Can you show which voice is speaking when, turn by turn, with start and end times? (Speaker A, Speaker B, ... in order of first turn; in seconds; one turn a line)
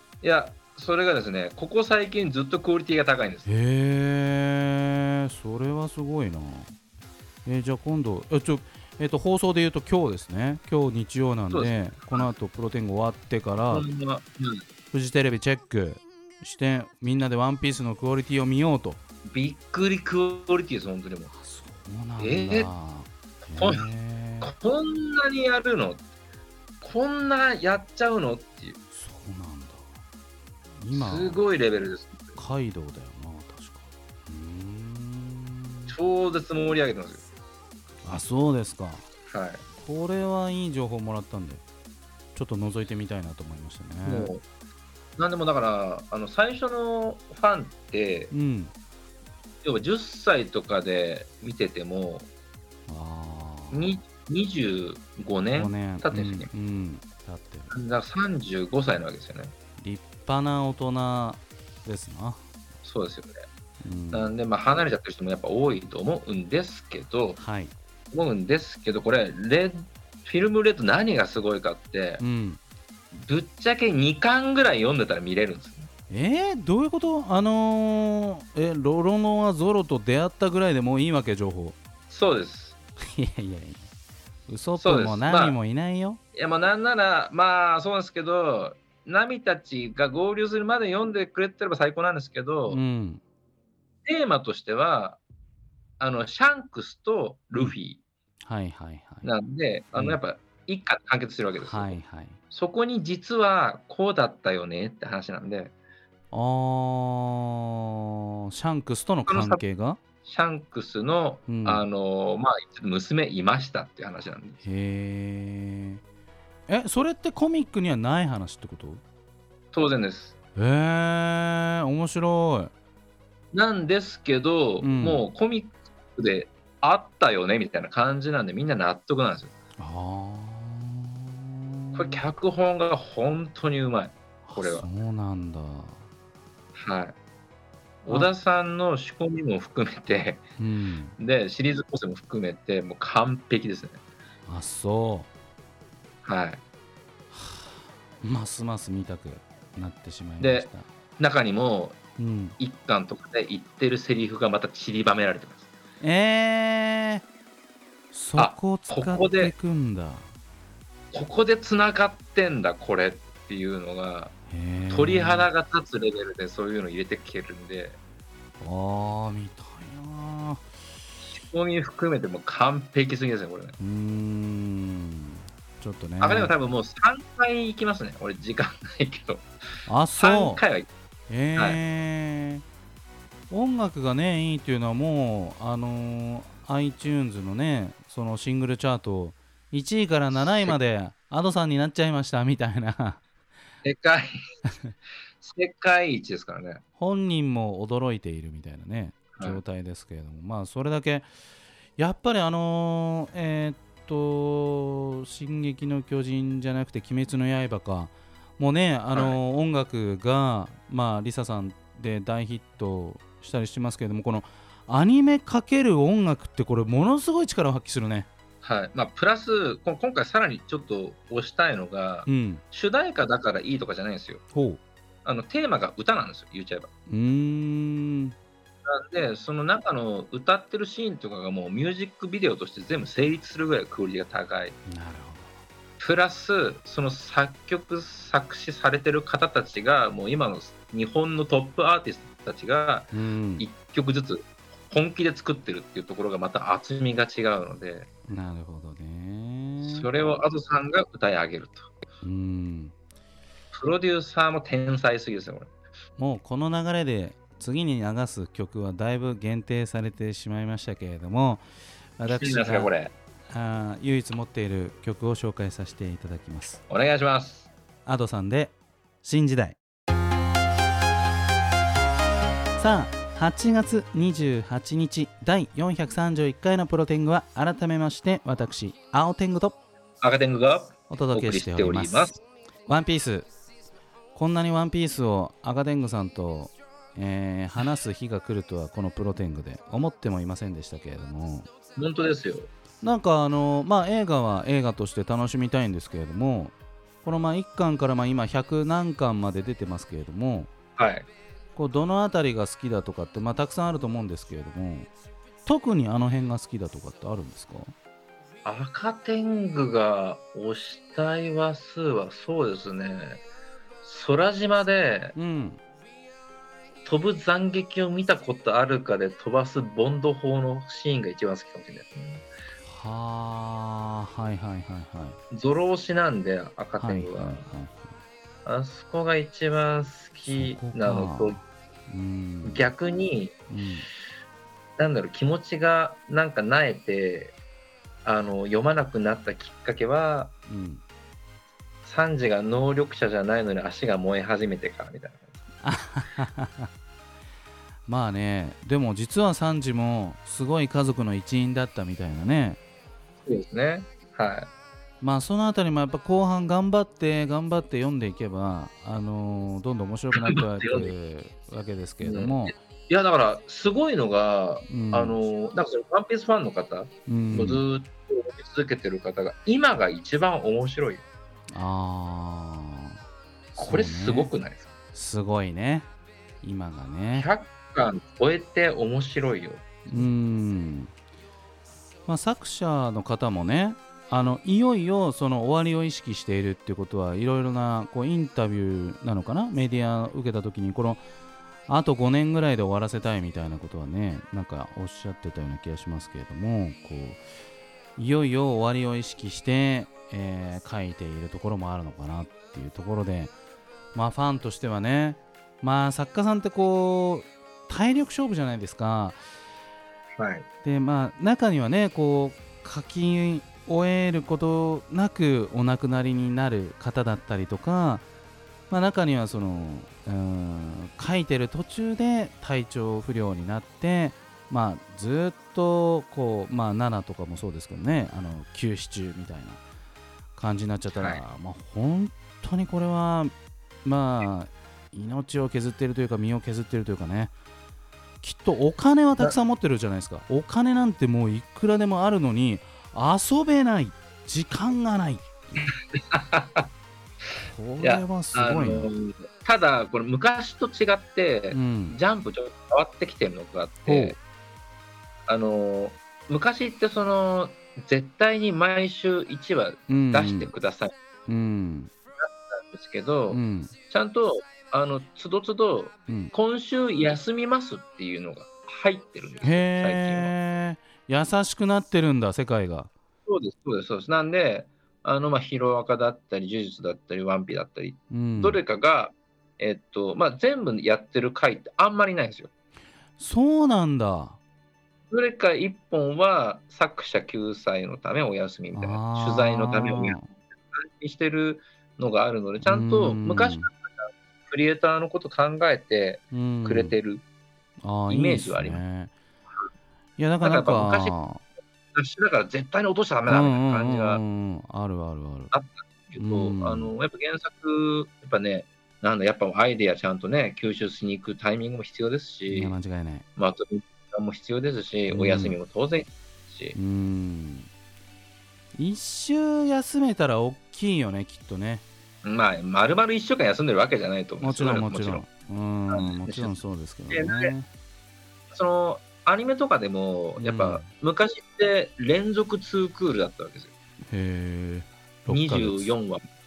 Speaker A: 0.2-3.5
Speaker B: 3.5-6.7
Speaker B: 7.5-13.9
Speaker A: 11.5-12.3
Speaker A: 13.7-14.6
Speaker B: 14.9-19.0
Speaker A: 19.3-21.3
Speaker B: 21.3-24.5
Speaker A: 22.2-22.7
Speaker A: 23.5-23.9
Speaker A: 24.4-26.0
Speaker A: 26.8-28.8
Speaker B: 28.9-29.9
Speaker B: 30.8-31.4
Speaker A: 30.9-32.4
Speaker B: 32.4-36.0
Speaker A: 35.9-37.2
Speaker B: 38.0-39.1
Speaker A: 39.3-39.6
Speaker B: 39.8-41.6
Speaker B: 42.4-44.3
Speaker A: 44.0-44.4
Speaker A: 45.2-48.3
Speaker B: 48.3-48.7
Speaker A: 49.6-52.3
Speaker B: 52.9-54.0
Speaker A: 53.7-56.5
Speaker B: 55.5-57.7
Speaker A: 57.7-59.5
Speaker B: 59.8-62.4
Speaker A: 62.8-63.4
Speaker B: 63.8-64.3
Speaker A: 64.1-67.4
Speaker B: 67.4-67.8
Speaker A: 68.1-72.2
Speaker B: 72.2-72.6
Speaker A: 73.1-75.9
Speaker B: 76.1-81.8
Speaker A: 82.1-82.8
Speaker B: 83.0-83.9
Speaker B: 84.5-86.2
Speaker A: 84.8-85.6
Speaker A: 86.3-92.8
Speaker B: 92.7-93.2
Speaker A: 94.0-95.2
Speaker A: 96.0-98.0
Speaker B: 98.5-99.3
Speaker A: 99.2-102.0
Speaker B: 99.9-100.2
Speaker B: 101.6-102.4
Speaker A: 102.5-105.7
Speaker B: 106.3-108.0
Speaker B: 108.5-110.0
Speaker A: 109.3-109.6
Speaker A: 110.2-114.6
Speaker B: 111.5-111.8
Speaker B: 114.6-116.0
Speaker B: 116.7-119.0
Speaker A: 119.7-120.4
Speaker B: 120.6-122.7
Speaker A: 123.5-129.5
Speaker B: 124.8-125.2
Speaker B: 129.8-132.2
Speaker A: 131.9-134.9
Speaker B: 134.5-136.0
Speaker A: 136.8-137.2
Speaker A: 138.0-140.4
Speaker B: 140.6-141.2
Speaker A: 141.2-144.0
Speaker B: 144.5-145.3
Speaker A: 146.2-146.6
Speaker B: 147.3-150.9
Speaker A: 150.4-150.7
Speaker A: 151.2-152.0
Speaker B: 152.2-152.6
Speaker A: 152.6-155.7
Speaker B: 156.0-157.2
Speaker B: 158.1-160.3
Speaker A: 158.4-159.5
Speaker A: 161.1-164.3
Speaker B: 164.5-165.5
Speaker A: 164.9-168.0
Speaker B: 168.6-170.6
Speaker A: 171.2-173.8
Speaker B: 173.8-176.5
Speaker A: 176.2-179.5
Speaker B: 179.9-180.6
Speaker A: 180.2-180.9
Speaker B: 181.3-182.6
Speaker B: 183.5-193.2
Speaker A: 190.3-190.8
Speaker A: 193.8-194.3
Speaker A: 195.4-196.8
Speaker B: 197.0-201.3
Speaker A: 199.4-199.6
Speaker B: 202.0-218.3
Speaker A: 209.1-209.4
Speaker A: 218.6-224.4
Speaker B: 222.3-222.6
Speaker B: 224.5-224.8
Speaker A: 225.2-226.9
Speaker B: 227.1-228.3
Speaker A: 228.9-234.8
Speaker B: 234.9-235.5
Speaker A: 236.0-248.1
Speaker B: 243.1-243.7
Speaker B: 248.3-250.1
Speaker A: 249.8-251.9
Speaker B: 252.2-252.9
Speaker A: 253.7-255.7
Speaker B: 256.2-261.6
Speaker B: 262.2-262.9
Speaker A: 262.3-263.1
Speaker B: 263.5-266.8
Speaker A: 266.9-267.7
Speaker B: 268.1-269.8
Speaker B: 272.8-279.8
Speaker A: 280.2-282.4
Speaker B: 281.1-283.5
Speaker B: 284.4-291.7
Speaker A: 292.0-292.7
Speaker B: 293.0-300.7
Speaker A: 301.0-301.3
Speaker B: 301.8-305.1
Speaker B: 305.7-307.9
Speaker A: 308.6-313.4
Speaker A: 314.0-315.4
Speaker B: 315.4-315.8
Speaker A: 317.1-322.4
Speaker B: 322.9-325.4
Speaker A: 325.5-327.6
Speaker B: 327.0-328.1
Speaker A: 328.6-331.6
Speaker B: 330.5-332.9
Speaker A: 332.6-333.6
Speaker B: 333.7-334.1
Speaker A: 335.0-337.6
Speaker A: 338.2-340.5
Speaker B: 340.7-341.0
Speaker A: 342.1-345.5
Speaker B: 345.8-346.9
Speaker B: 348.1-352.8
Speaker A: 353.5-354.7
Speaker B: 355.2-362.7
Speaker A: 360.4-361.1
Speaker A: 362.2-371.2
Speaker B: 364.9-365.4
Speaker B: 367.3-367.8
Speaker B: 371.7-373.2
Speaker B: 373.8-374.5
Speaker A: 373.8-374.9
Speaker B: 375.1-376.1
Speaker B: 376.6-377.5
Speaker A: 377.4-380.3
Speaker B: 380.1-381.1
Speaker B: 382.3-391.2
Speaker B: 391.9-397.4
Speaker B: 398.2-403.5
Speaker B: 404.1-409.4
Speaker A: 410.4-410.6
Speaker B: 410.8-418.2
Speaker B: 418.9-429.8
Speaker B: 430.6-433.5
Speaker A: 431.1-431.4
Speaker B: 434.0-437.5
Speaker B: 438.4-445.5
Speaker A: 445.8-446.9
Speaker B: 447.6-449.1
Speaker A: 448.0-454.4
Speaker B: 451.7-452.1
Speaker B: 454.1-454.4
Speaker A: 455.5-461.1
Speaker B: 460.1-460.7
Speaker B: 461.5-462.1
Speaker A: 462.4-470.5
Speaker B: 463.5-463.9
Speaker B: 469.6-473.1
Speaker A: 473.5-482.7
Speaker B: 478.3-478.8
Speaker B: 483.4-484.6
Speaker A: 485.3-497.4
Speaker B: 488.9-490.5
Speaker B: 492.9-493.9
Speaker B: 496.5-497.2
Speaker B: 498.0-499.3
Speaker A: 498.3-499.0
Speaker B: 500.4-501.6
Speaker A: 500.6-501.4
Speaker A: 502.1-504.4
Speaker B: 503.5-505.7
Speaker A: 505.7-513.0
Speaker B: 506.4-507.1
Speaker B: 512.7-513.5
Speaker A: 513.6-517.0
Speaker B: 515.3-515.8
Speaker B: 517.0-517.9
Speaker B: 519.0-522.0
Speaker A: 522.4-525.5
Speaker B: 524.6-527.9
Speaker A: 526.1-526.8
Speaker A: 527.3-527.7
Speaker A: 528.7-533.9
Speaker B: 530.6-531.1
Speaker B: 534.3-536.1
Speaker A: 535.5-536.4